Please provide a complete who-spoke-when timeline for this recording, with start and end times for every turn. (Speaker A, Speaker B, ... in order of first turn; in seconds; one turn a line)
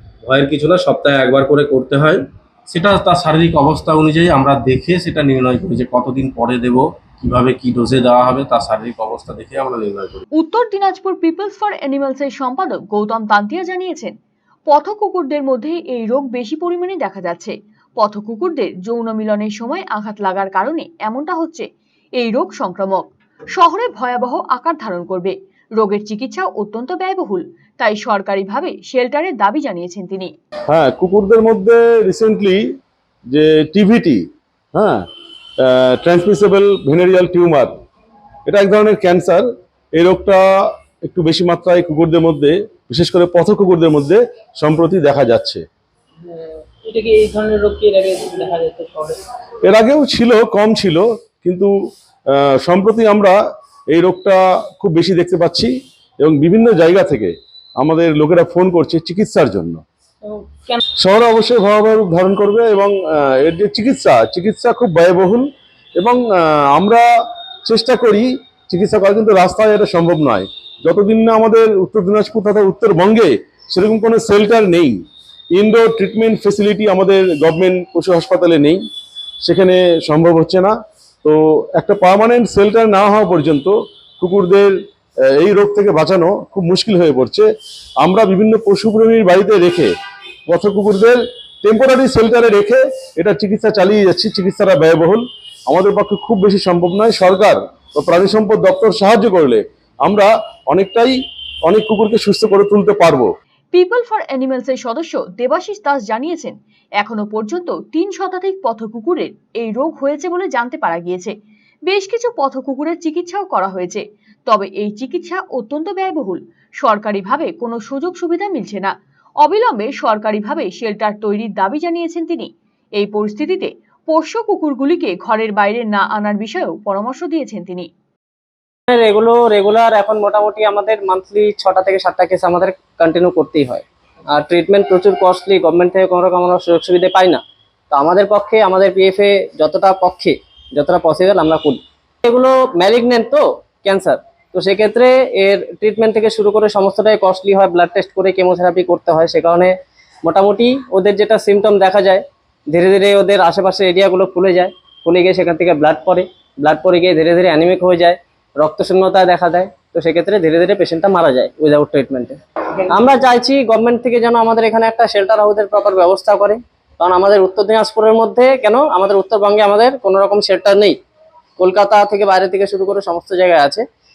Speaker A: 0.2-10.2
Speaker B: 10.3-14.1
Speaker B: 14.7-21.6
Speaker B: 22.2-30.3
Speaker C: 30.7-32.6
Speaker C: 33.3-35.0
Speaker C: 35.6-37.7
Speaker C: 38.5-40.4
Speaker C: 41.0-45.6
Speaker D: 46.2-49.2
Speaker C: 49.6-51.7
Speaker C: 52.3-53.4
Speaker C: 53.9-59.8
Speaker D: 60.2-60.8
Speaker C: 61.0-65.5
Speaker C: 66.0-67.0
Speaker C: 67.6-75.0
Speaker C: 75.5-78.8
Speaker C: 79.4-84.8
Speaker C: 85.3-87.5
Speaker C: 88.0-89.9
Speaker C: 90.5-103.3
Speaker B: 103.7-111.3
Speaker B: 111.9-127.9
Speaker E: 128.9-170.9
Speaker E: 171.6-173.8